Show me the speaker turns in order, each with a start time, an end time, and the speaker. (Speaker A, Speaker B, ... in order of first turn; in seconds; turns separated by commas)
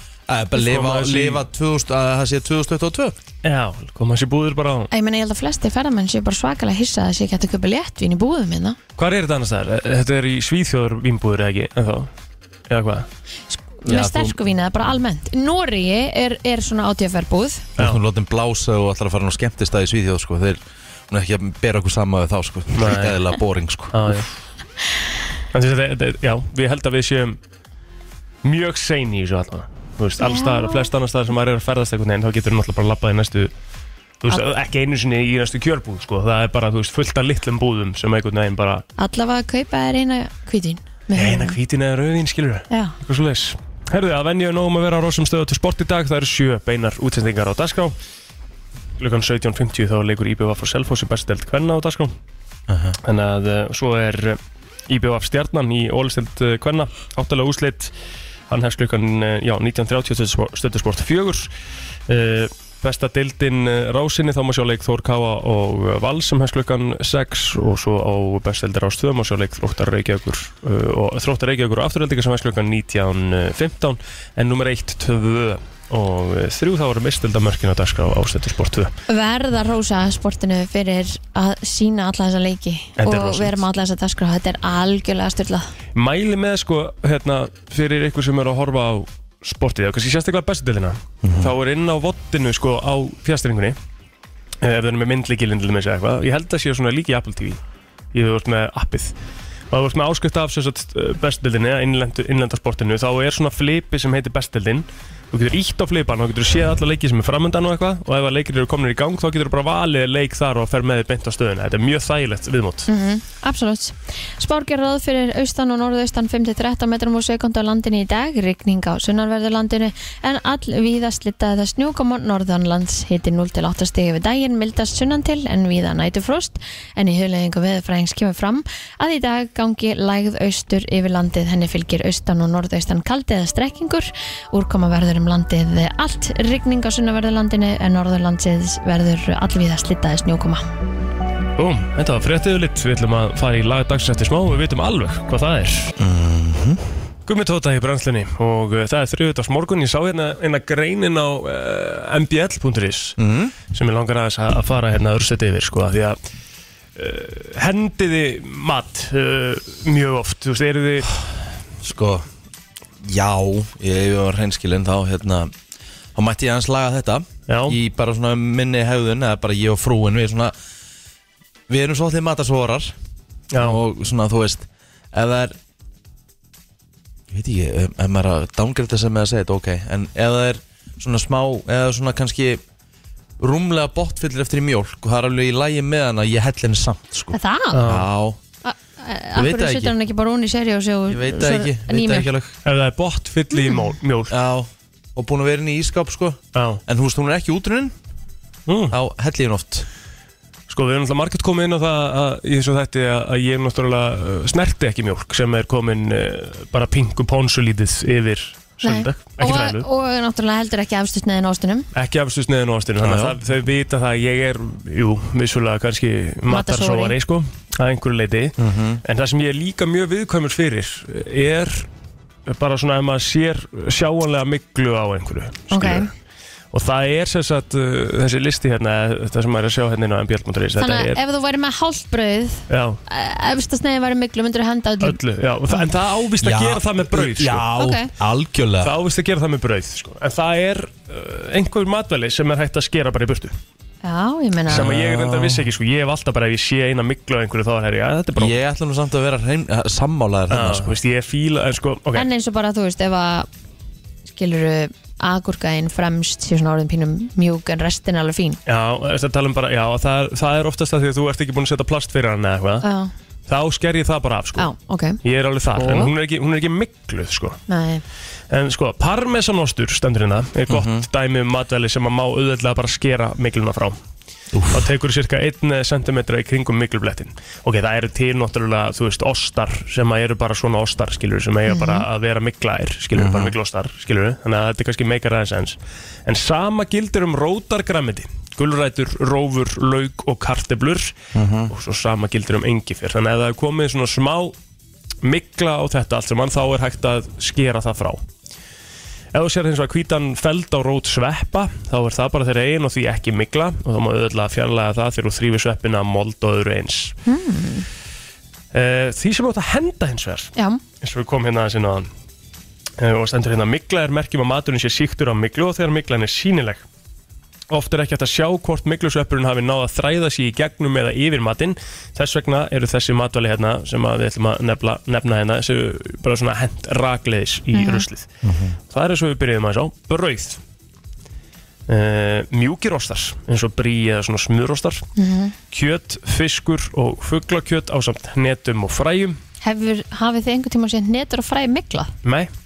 Speaker A: 0.3-3.1, Speaker B: 0.5-1.4, Speaker B: 3.4-4.9, Speaker C: 4.9-8.8, Speaker B: 9.0-12.1, Speaker B: 12.7-13.1, Speaker C: 13.5-17.7, Speaker A: 13.9-14.3, Speaker A: 17.8-24.2, Speaker B: 22.7-23.2, Speaker B: 23.9-24.3, Speaker B: 25.5-27.4, Speaker B: 28.4-33.5, Speaker C: 30.2-30.9, Speaker B: 34.2-38.8, Speaker C: 39.0-41.6, Speaker B: 41.1-47.9, Speaker C: 42.7-42.9, Speaker B: 49.0-52.1, Speaker A: 52.7-53.0, Speaker B: 53.0-57.9, Speaker B: 58.5-61.5, Speaker B: 62.1-78.9, Speaker C: 79.1-85.7, Speaker B: 83.0-83.6, Speaker B: 85.9-93.8, Speaker A: 91.2-91.5, Speaker B: 94.6-97.6, Speaker B: 98.1-99.1, Speaker B: 99.7-112.9, Speaker C: 112.9-140.7, Speaker B: 141.6-145.9, Speaker A: 146.0-146.8, Speaker B: 147.3-153.2, Speaker A: 153.2-153.5, Speaker B: 153.7-156.2, Speaker B: 156.9-161.1, Speaker A: 161.8-162.3, Speaker A: 163.0-165.5, Speaker A: 166.1-170.5, Speaker B: 167.5-167.8, Speaker A: 171.7-172.9, Speaker B: 173.5-173.8, Speaker A: 173.6-175.6, Speaker A: 177.3-182.6, Speaker A: 183.4-188.4, Speaker C: 187.3-187.8, Speaker B: 187.7-188.1, Speaker C: 188.6-192.3, Speaker A: 189.3-189.9, Speaker A: 191.1-192.5, Speaker B: 192.6-194.3, Speaker A: 194.3-197.9, Speaker B: 196.5-196.8, Speaker B: 198.7-198.9, Speaker A: 198.9-199.8, Speaker B: 200.7-209.8, Speaker C: 208.8-211.9, Speaker B: 211.9-221.9, Speaker A: 213.0-213.4, Speaker C: 216.5-217.1, Speaker A: 218.6-219.0, Speaker B: 222.5-226.1, Speaker C: 225.7-226.1, Speaker B: 226.7-231.2, Speaker C: 230.8-235.2, Speaker B: 232.7-233.0, Speaker B: 235.0-237.7, Speaker A: 236.4-238.9, Speaker C: 237.8-238.1, Speaker B: 238.8-243.6, Speaker C: 244.0-244.8, Speaker A: 244.7-245.7, Speaker B: 244.7-248.5, Speaker A: 248.3-250.9, Speaker B: 250.5-252.3, Speaker C: 252.1-253.5, Speaker C: 254.3-258.6, Speaker B: 258.7-262.9, Speaker C: 262.8-263.1, Speaker B: 263.5-264.7, Speaker C: 264.6-265.2, Speaker B: 265.2-267.6, Speaker C: 265.8-266.1, Speaker C: 267.7-268.0, Speaker B: 268.5-274.0, Speaker A: 270.7-271.1, Speaker A: 274.5-274.9, Speaker B: 274.7-291.1, Speaker C: 281.7-282.0, Speaker A: 283.1-283.5, Speaker A: 291.3-291.7, Speaker B: 291.7-294.5, Speaker B: 295.2-298.2, Speaker B: 299.3-307.1, Speaker C: 307.2-307.9, Speaker B: 308.7-312.1, Speaker C: 310.6-310.8, Speaker B: 313.0-316.8, Speaker B: 317.7-328.3, Speaker C: 327.7-328.0, Speaker A: 328.4-328.8, Speaker B: 328.9-330.6, Speaker B: 331.9-335.1, Speaker C: 335.1-335.5, Speaker B: 335.7-339.4, Speaker C: 339.6-342.1, Speaker B: 342.2-342.5